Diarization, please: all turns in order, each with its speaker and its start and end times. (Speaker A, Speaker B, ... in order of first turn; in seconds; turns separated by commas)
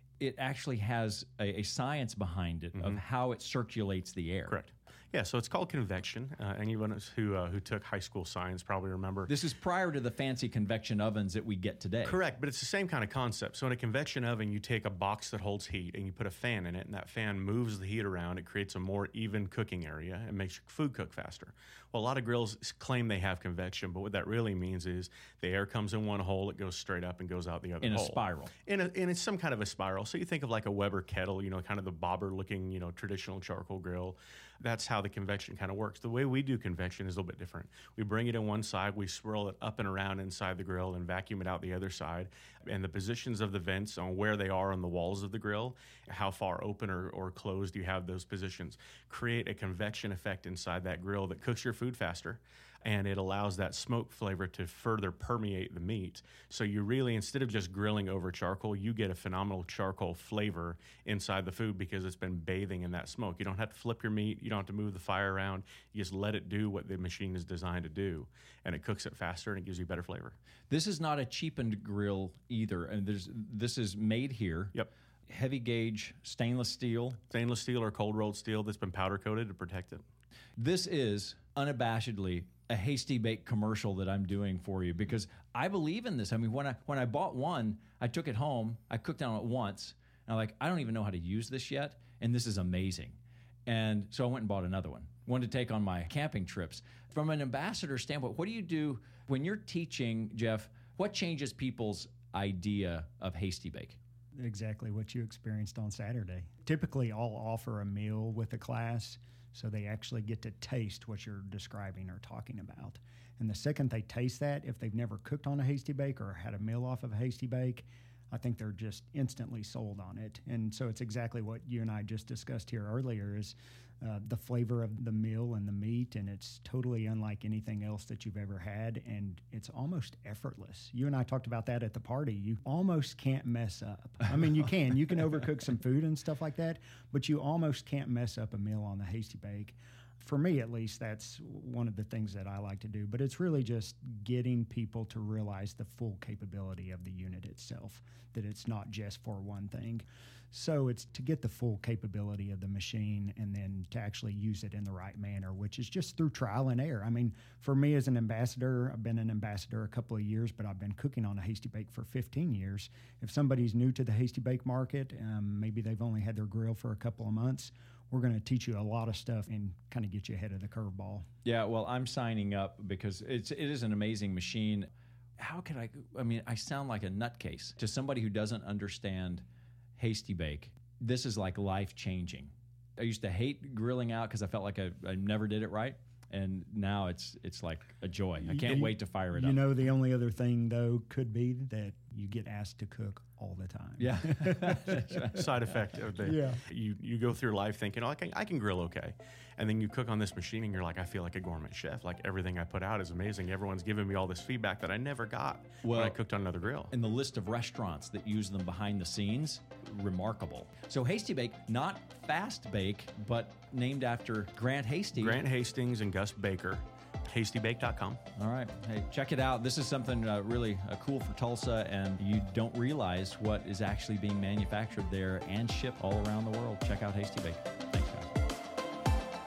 Speaker A: 0.2-4.6, Speaker B: 2.8-3.0, Speaker B: 4.5-9.3, Speaker A: 9.3-12.2, Speaker B: 12.0-70.4, Speaker A: 27.8-28.5, Speaker A: 70.7-74.8, Speaker A: 75.3-77.2, Speaker B: 77.3-80.0, Speaker A: 80.5-104.0, Speaker C: 104.4-171.2, Speaker A: 171.4-179.4, Speaker A: 180.0-189.6, Speaker C: 188.5-195.4, Speaker A: 194.0-195.4, Speaker B: 195.3-206.9, Speaker C: 196.2-196.6, Speaker A: 205.8-206.2, Speaker A: 206.9-215.4, Speaker B: 215.2-218.2, Speaker A: 218.3-228.3